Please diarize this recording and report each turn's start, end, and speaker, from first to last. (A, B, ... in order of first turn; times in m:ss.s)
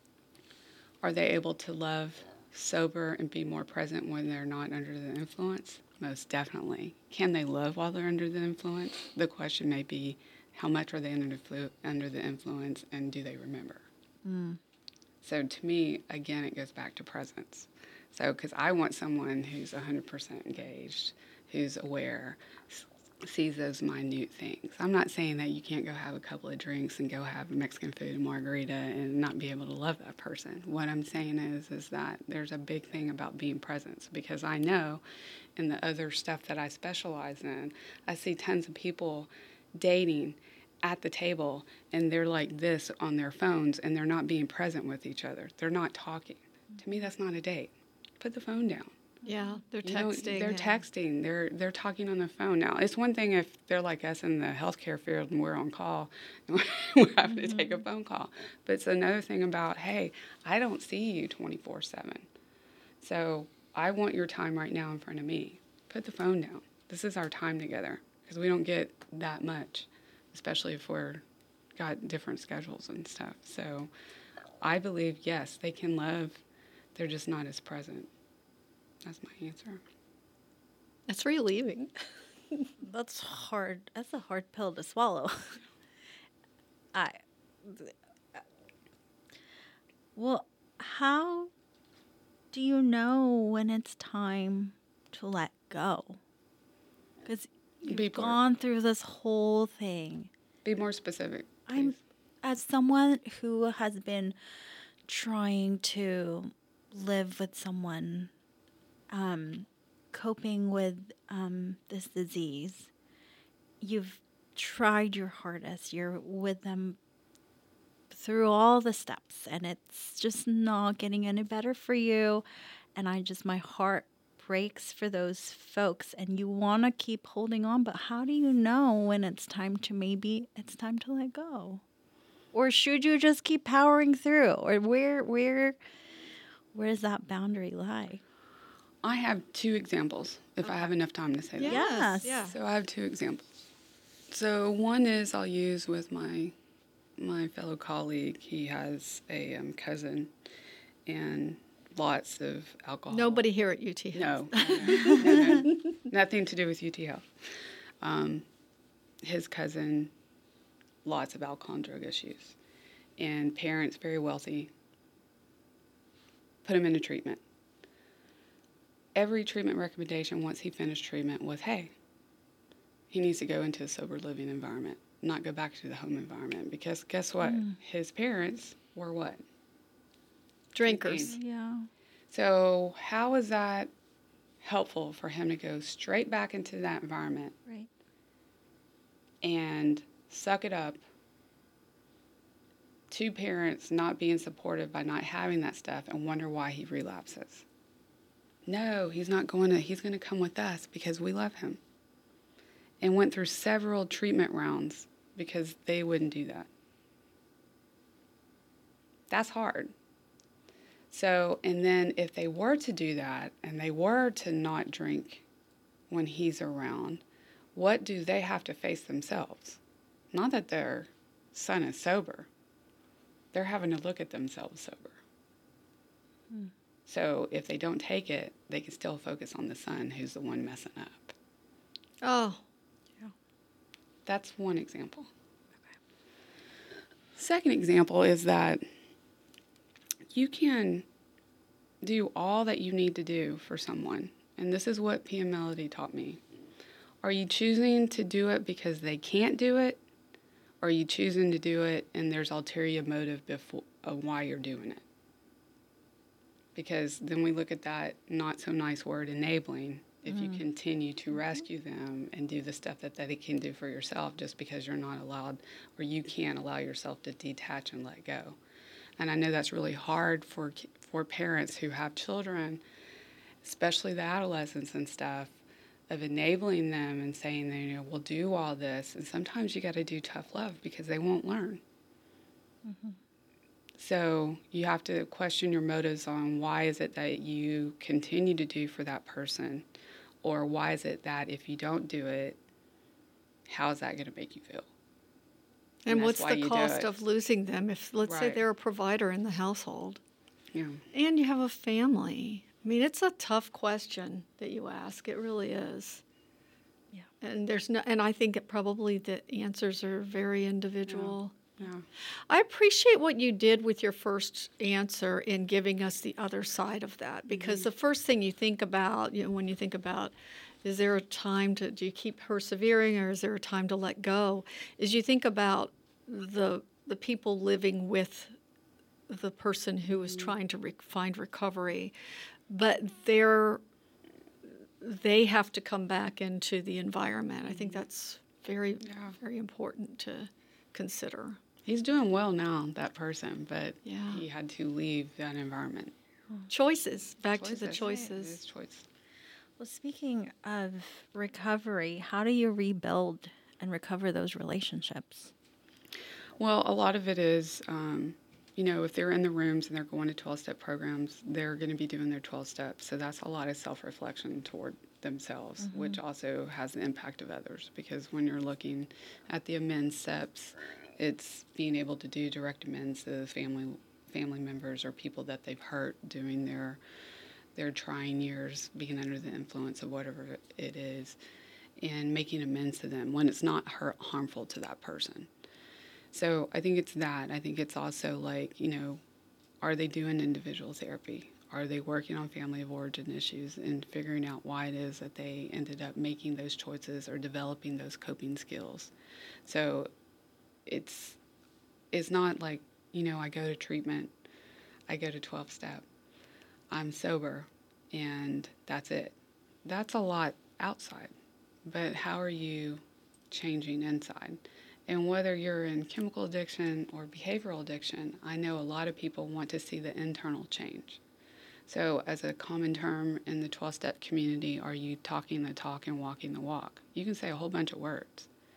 0:01.0-0:13.9 A
0:14.2-0:14.6 B
0:15.2-0:35.0 A
0:35.6-0:49.0 A
0:49.3-0:50.8 C
0:49.3-0:49.5 B
0:49.8-1:02.3 A
0:57.3-0:57.7 B
1:03.0-1:11.2 A
1:11.8-1:13.9 A
1:14.6-1:16.4 A
1:17.0-1:18.1 A
1:19.0-1:19.8 A
1:21.1-1:21.9 C
1:22.8-1:25.6 B
1:26.9-1:28.4 B
1:30.2-1:31.5 B
1:32.5-1:36.2 B
1:37.2-1:40.3 B
1:37.8-1:38.4 A
1:40.6-1:42.0 A
1:41.7-1:44.4 B
1:45.1-1:48.3 B
1:49.1-1:52.9 B
1:53.8-1:57.0 B
1:58.1-2:02.4 B
2:03.0-2:11.8 B
2:12.5-2:15.8 B
2:16.7-2:18.2 B
2:19.0-2:23.7 A
2:21.6-2:22.6 C
2:21.7-2:22.4 B
2:24.3-2:26.6 A
2:27.2-2:30.3 A
2:31.1-2:33.4 A
2:33.1-2:35.8 C
2:34.1-2:37.3 A
2:38.0-2:38.5 A
2:39.2-2:40.1 A
2:41.0-2:42.6 A
2:43.2-2:44.7 A
2:46.6-2:47.4 A
2:49.2-2:51.9 A
2:53.1-2:59.4 A
2:57.4-2:57.8 B
3:00.7-3:01.4 C
3:00.8-3:01.4 A
3:01.2-3:01.9 B
3:02.3-3:03.9 A
3:04.6-3:07.6 A
3:09.4-3:11.0 A
3:13.1-3:17.7 A
3:18.7-3:21.8 A
3:23.0-3:26.7 A
3:29.3-3:29.9 A
3:31.1-3:35.4 A
3:36.1-3:37.2 A
3:37.7-3:39.8 A
3:40.3-3:42.5 A
3:43.5-3:45.2 A
3:47.1-3:51.4 A
3:52.2-3:52.6 C
3:54.3-3:55.3 A
3:57.4-3:58.8 A
4:00.3-4:01.1 A
4:02.0-4:06.4 A
4:07.2-4:10.0 A
4:10.8-4:15.0 A
4:16.8-4:28.6 A
4:20.3-4:20.6 B
4:29.2-4:32.8 A
4:33.6-4:35.6 A
4:36.1-4:41.8 A
4:42.8-4:43.2 B
4:44.0-4:49.9 A
4:50.4-4:52.6 A
4:53.7-4:54.9 A
4:56.1-5:00.2 C
4:56.1-4:57.2 A
4:58.2-4:58.6 A
5:00.7-5:01.1 A
5:01.1-5:06.2 C
5:07.4-5:11.6 C
5:11.1-5:12.0 A
5:12.5-5:28.5 C
5:17.6-5:17.8 A
5:29.3-5:32.1 C
5:32.7-5:33.8 C
5:35.0-5:41.6 C
5:39.1-5:39.4 A
5:41.9-5:46.2 A
5:44.0-5:44.4 C
5:46.7-5:48.6 C
5:47.6-5:49.1 A
5:49.8-5:55.5 B
5:56.6-6:17.0 A
6:05.9-6:06.2 B
6:17.8-6:21.4 A
6:22.0-6:25.5 A
6:26.3-6:29.2 A
6:29.8-6:39.1 A
6:39.6-6:40.1 A
6:40.9-6:41.4 A
6:42.1-6:44.4 A
6:45.1-6:46.0 A
6:46.9-6:51.3 A
6:51.9-7:01.2 A
7:01.9-7:08.5 A